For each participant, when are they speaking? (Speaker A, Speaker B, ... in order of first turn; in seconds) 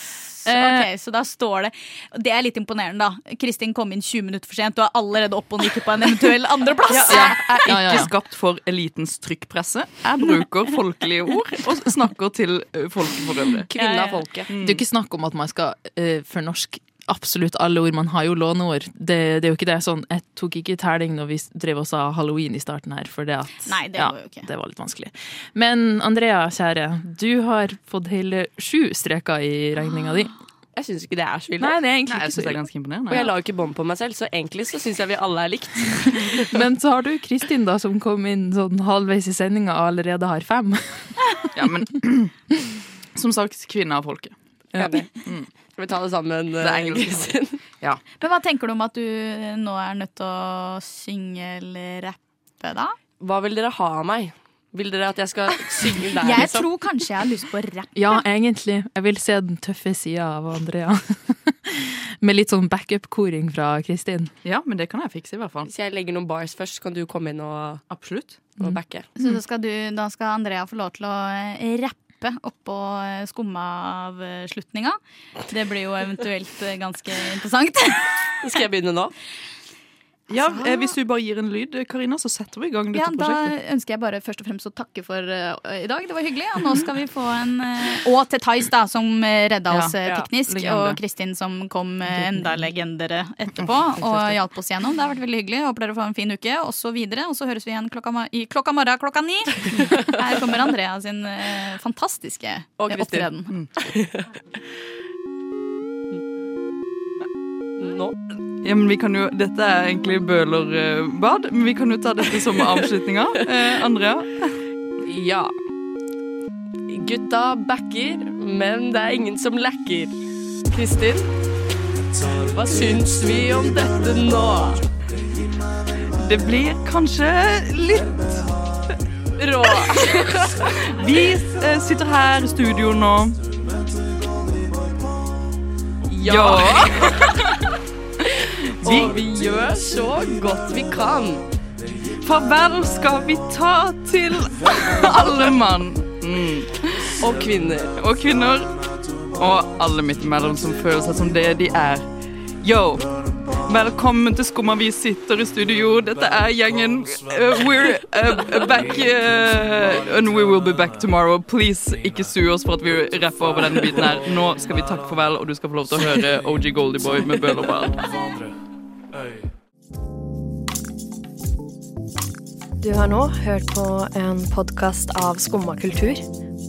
Speaker A: 0.4-0.9, 7.2-8.1, 14.6-30.3, 31.6-32.6, 36.5-41.6, 58.0-64.3, 68.6-69.3
Speaker B: 0.5-8.0, 13.8-14.2, 23.6-24.5, 48.2-53.0, 56.2-58.0, 69.2-78.4, 80.4-81.0, 82.9-103.5, 129.5-130.1
Speaker C: 6.9-13.7, 14.5-14.8, 32.1-33.3, 41.5-42.5, 43.1-44.4, 46.6-48.0, 64.4-65.7, 67.9-68.4, 80.3-83.5, 89.7-91.0, 108.6-114.6, 126.2-128.6, 130.9-133.4, 136.2-137.3, 138.8-139.2, 142.2-147.1, 148.0-148.8, 149.4-168.0
Speaker D: 6.9-7.3, 13.7-14.5, 30.7-31.8, 33.1-36.6, 44.8-47.6, 53.2-56.7, 65.7-67.8, 68.6-69.1, 78.4-79.2, 94.0-94.3, 102.8-104.4, 107.8-108.2, 112.5-112.8, 115.0-115.5, 116.9-120.2, 120.7-121.3, 122.4-124.8, 129.4-130.7, 136.1-137.3, 138.8-141.4, 147.2-147.9
Speaker E: 172.8-176.2